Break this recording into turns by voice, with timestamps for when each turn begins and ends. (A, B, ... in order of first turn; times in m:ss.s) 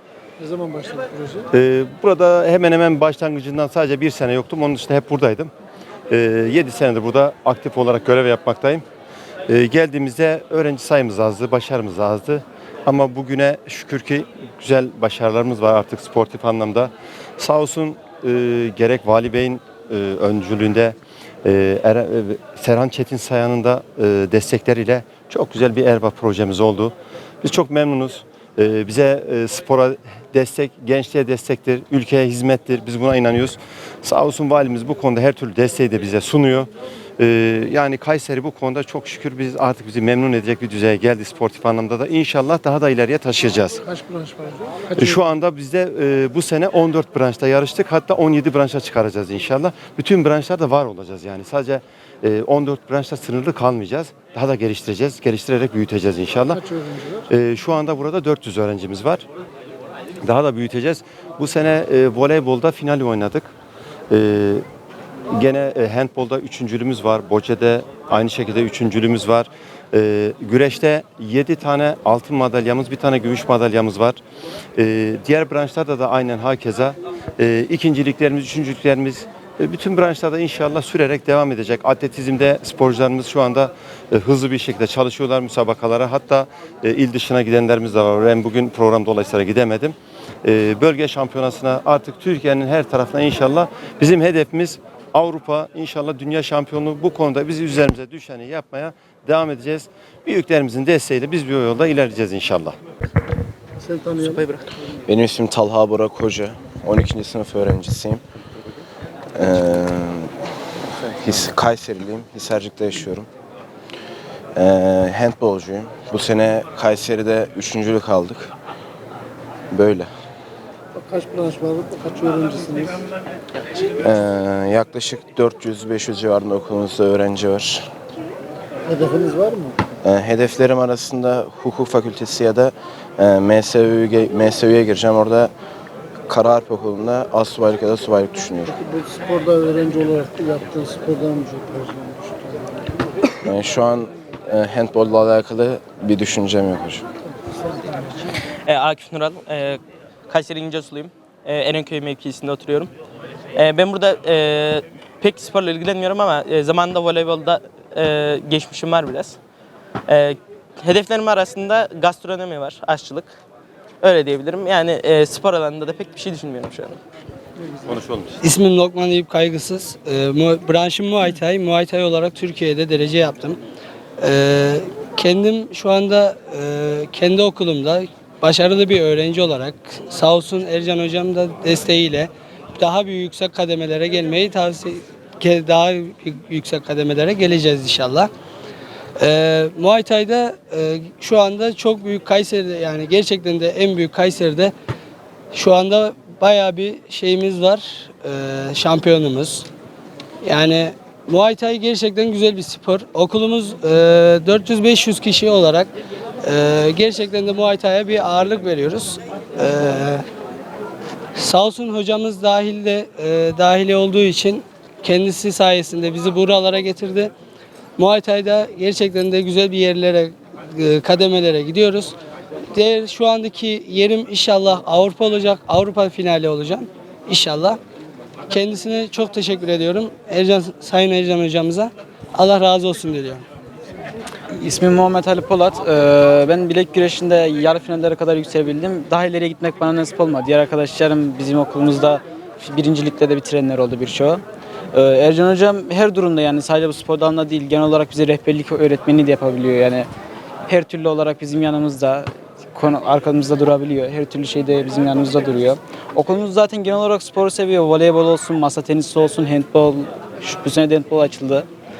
0:00.4-0:01.5 A
0:01.5-0:05.5 B
0:06.1-0:08.8 B
0:09.5-0:43.8 B
0:44.0-0:44.8 A
0:44.9-0:56.7 B
0:57.3-0:59.2 B
1:00.2-1:03.5 B
1:04.1-1:04.6 B
1:05.3-1:14.2 B
1:14.8-1:42.8 B
1:44.2-1:44.7 C
1:45.1-1:48.2 D
1:49.4-1:50.3 D
1:50.9-1:53.3 D
1:54.6-1:58.5 D
1:59.7-2:00.1 D
2:01.0-2:03.0 A
2:04.0-2:07.9 D
2:08.9-2:09.8 A
2:10.0-2:15.5 D
2:16.3-2:18.8 D
2:18.9-2:22.5 A
2:23.4-2:27.0 D
2:28.7-2:32.9 C
2:33.6-2:39.4 C
2:40.1-2:43.4 C
2:44.0-2:47.0 C
2:47.9-2:48.4 B
2:48.4-2:53.6 E
2:54.2-3:08.3 E
3:09.2-3:14.7 E
3:15.5-3:19.7 E
3:20.4-3:25.9 E
3:26.4-3:30.2 E
3:31.4-3:37.3 E
3:38.0-3:42.2 E
3:42.7-3:47.8 E
3:48.5-3:53.4 E
3:54.6-4:10.1 F
4:10.7-4:21.7 F